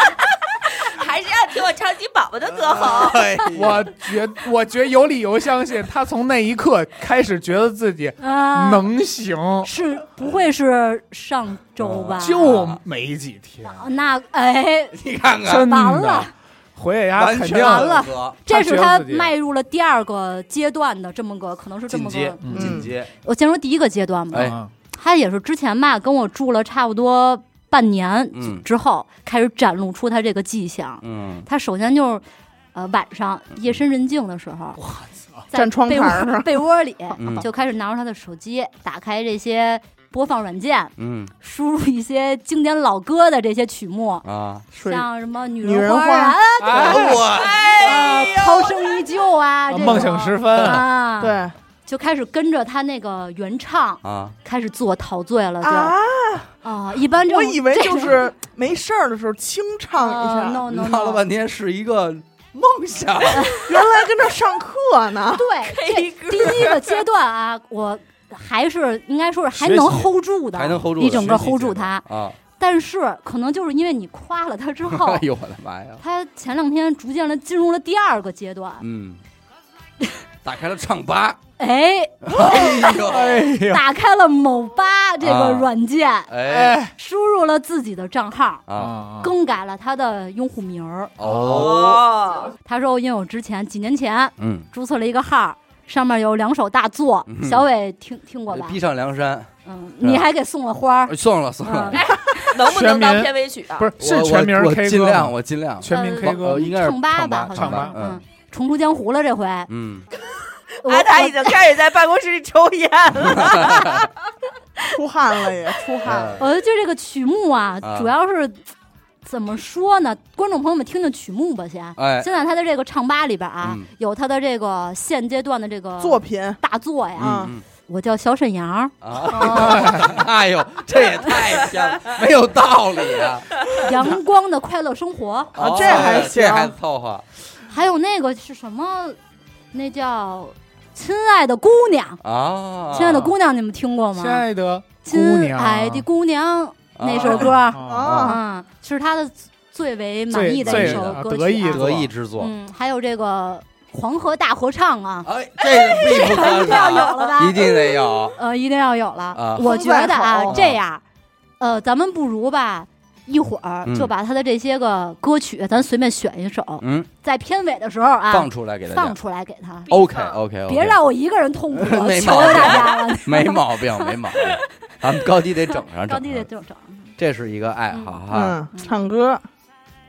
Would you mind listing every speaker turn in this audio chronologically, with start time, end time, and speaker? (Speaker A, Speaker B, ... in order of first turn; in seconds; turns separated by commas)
Speaker A: 0.8-3.3, Speaker B: 2.5-3.9, Speaker C: 3.5-9.7, Speaker D: 8.2-8.9, Speaker D: 9.6-12.5, Speaker B: 11.8-12.8, Speaker C: 12.1-13.9, Speaker D: 13.6-15.0, Speaker B: 14.9-15.7, Speaker C: 15.4-19.3, Speaker D: 15.7-16.3, Speaker B: 17.1-18.4, Speaker D: 17.5-32.2, Speaker B: 21.9-23.1, Speaker C: 22.4-22.8, Speaker E: 22.5-22.9, Speaker C: 24.4-24.7, Speaker B: 28.3-28.6, Speaker B: 31.0-31.5, Speaker D: 32.7-34.8, Speaker C: 34.8-35.5, Speaker D: 35.5-44.2, Speaker E: 35.5-36.5, Speaker B: 37.2-37.5, Speaker B: 41.0-41.3, Speaker B: 44.2-44.6, Speaker E: 44.7-45.0, Speaker D: 44.8-47.2, Speaker E: 45.6-46.4, Speaker C: 46.6-47.2, Speaker B: 46.8-48.1, Speaker A: 47.2-48.3, Speaker D: 47.8-56.0, Speaker C: 49.7-50.9, Speaker E: 51.2-51.5, Speaker B: 54.0-54.3, Speaker E: 55.6-56.5, Speaker D: 56.6-58.3, Speaker E: 57.2-60.6, Speaker D: 60.0-61.2, Speaker B: 60.7-63.8, Speaker D: 63.3-63.7, Speaker E: 63.6-65.5, Speaker D: 65.3-72.0, Speaker A: 65.7-67.0, Speaker C: 69.5-70.1, Speaker B: 70.5-72.4, Speaker D: 72.6-75.2, Speaker B: 74.9-76.0, Speaker D: 76.0-78.8, Speaker B: 78.8-79.2, Speaker B: 80.4-81.4, Speaker D: 81.6-88.6, Speaker B: 82.2-83.5, Speaker C: 82.5-83.8, Speaker B: 85.2-85.7, Speaker B: 86.3-86.8, Speaker C: 86.5-86.9, Speaker B: 88.7-88.9, Speaker C: 88.7-89.3, Speaker D: 89.2-91.1, Speaker B: 91.2-92.1, Speaker C: 91.2-91.8, Speaker A: 91.4-92.5, Speaker D: 92.6-98.8, Speaker B: 94.4-94.7, Speaker B: 97.3-97.7, Speaker B: 98.5-99.5, Speaker D: 99.6-102.5, Speaker B: 100.0-100.3, Speaker B: 101.0-102.1, Speaker A: 101.9-103.9, Speaker C: 102.5-106.7, Speaker B: 104.0-108.2, Speaker D: 105.9-109.7, Speaker C: 107.5-108.0, Speaker B: 109.7-110.0, Speaker D: 110.8-111.6, Speaker A: 110.8-114.1, Speaker B: 113.4-114.0, Speaker E: 114.9-116.4, Speaker B: 116.0-116.4, Speaker D: 116.4-118.6, Speaker B: 117.8-118.1, Speaker D: 119.2-130.1, Speaker B: 122.0-122.3, Speaker B: 123.6-123.9, Speaker E: 126.0-126.6, Speaker B: 127.2-127.6, Speaker E: 127.2-127.5, Speaker B: 129.0-134.1, Speaker C: 129.8-130.1, Speaker D: 133.8-135.5, Speaker B: 135.5-137.2, Speaker E: 135.6-136.7, Speaker D: 137.7-139.2, Speaker D: 139.7-142.2, Speaker B: 142.2-143.3, Speaker D: 142.9-144.4, Speaker C: 144.1-146.1, Speaker D: 145.0-161.0, Speaker B: 146.9-148.4, Speaker C: 147.3-148.1, Speaker E: 147.8-148.4, Speaker C: 150.3-152.1, Speaker B: 150.5-152.5, Speaker B: 155.2-158.3, Speaker A: 156.1-157.5, Speaker B: 159.3-159.8, Speaker E: 159.6-160.6, Speaker B: 160.5-160.8, Speaker D: 161.6-169.9, Speaker B: 163.8-164.1, Speaker B: 166.8-167.1, Speaker B: 168.3-169.2, Speaker A: 169.9-170.4, Speaker B: 169.9-171.0, Speaker D: 170.7-174.6, Speaker B: 171.7-176.5, Speaker A: 172.3-172.9, Speaker D: 175.7-177.1, Speaker B: 177.2-178.6, Speaker E: 178.3-179.4